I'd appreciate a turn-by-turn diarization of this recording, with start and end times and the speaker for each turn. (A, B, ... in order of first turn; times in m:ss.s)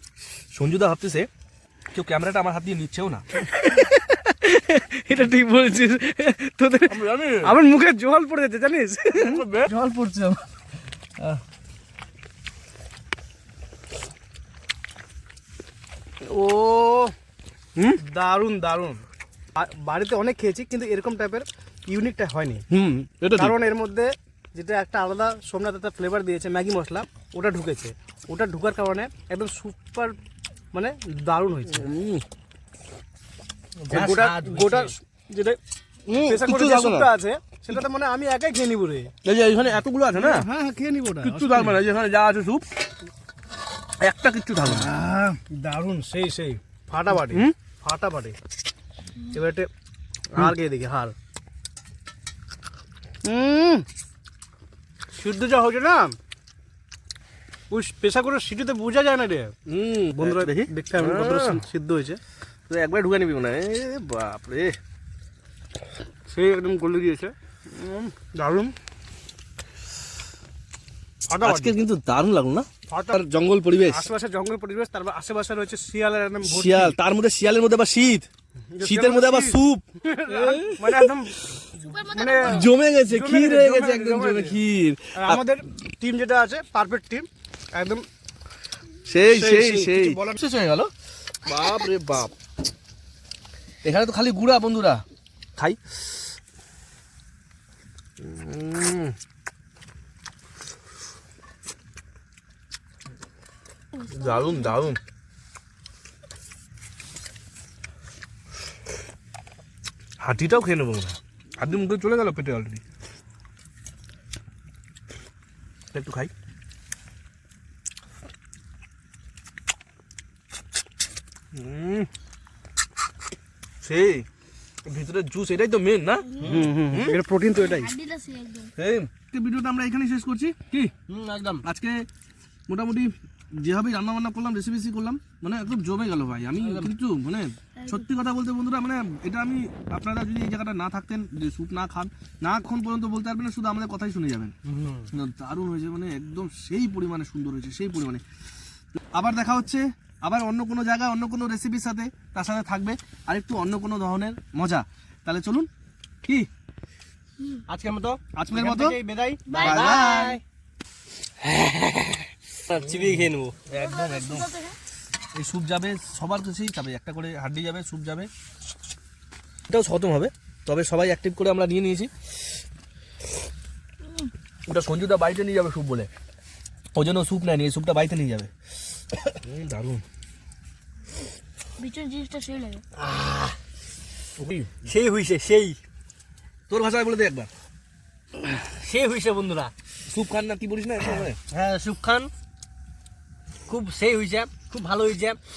0:00.5-0:01.3 A
0:01.9-0:03.2 A
0:03.5-0:10.4 B
0:06.9-0:07.5 A
0:09.1-0:09.7 A
0:16.3-0:17.1 B
0:17.9-0:19.0 B
0:19.6-0:30.2 B
0:23.2-0:23.6 A
0:30.7-0:31.9 B
0:31.7-0:32.2 A
0:33.8-0:34.9 C
0:33.9-0:35.6 B
0:36.1-0:39.1 B
0:36.3-0:37.1 A
0:39.2-0:40.5 A
0:40.1-0:41.8 B
0:41.2-0:42.6 A
0:44.0-0:44.9 A
0:44.6-0:48.4 B
0:47.1-0:47.5 A
0:49.3-0:49.7 B
0:50.3-0:51.2 B
0:53.2-0:53.8 B
0:55.1-0:56.2 B
0:57.7-0:59.5 B
0:59.7-1:01.6 A
1:00.2-1:02.2 B
1:02.7-1:04.8 A
1:06.3-1:08.8 B
1:11.3-1:11.8 B
1:11.4-1:14.1 A
1:12.9-1:13.2 B
1:13.8-1:17.0 B
1:16.4-1:18.3 A
1:18.7-1:21.4 B
1:18.8-1:21.2 A
1:21.8-1:22.7 D
1:22.1-1:24.6 B
1:22.4-1:25.4 A
1:25.2-1:28.1 B
1:29.1-1:30.9 A
1:29.2-1:30.4 B
1:31.4-1:32.3 A
1:33.8-1:35.0 A
1:35.6-1:36.0 A
1:38.2-1:39.2 A
1:44.0-1:44.7 D
1:44.1-1:45.0 A
1:50.2-1:52.8 A
1:55.9-1:56.3 A
2:01.5-2:02.1 A
2:03.8-2:04.3 A
2:04.8-2:06.3 A
2:06.3-2:06.6 D
2:06.4-2:06.7 C
2:06.5-2:07.9 B
2:06.9-2:07.2 A
2:07.6-2:08.7 D
2:08.8-2:10.9 A
2:11.1-2:11.6 C
2:11.6-2:12.1 A
2:12.7-2:24.5 A
2:16.6-2:16.9 C
2:17.8-2:18.0 D
2:24.6-2:25.1 C
2:25.1-2:28.2 A
2:29.1-2:35.7 A
2:37.7-2:40.4 C
2:38.3-2:39.0 A
2:39.5-2:40.4 D
2:39.5-2:40.4 A
2:41.4-2:43.6 C
2:42.7-2:44.5 A
2:43.7-2:44.8 D
2:45.3-2:48.3 A
2:49.7-2:52.1 A
2:54.7-2:56.1 A
2:57.0-2:58.5 A
2:59.3-3:00.0 A
3:01.8-3:02.8 D
3:03.0-3:03.6 C
3:04.4-3:04.7 A
3:04.6-3:05.8 C
3:06.7-3:07.5 A
3:08.5-3:09.7 C
3:10.1-3:11.4 A
3:11.5-3:12.3 C
3:13.7-3:15.4 C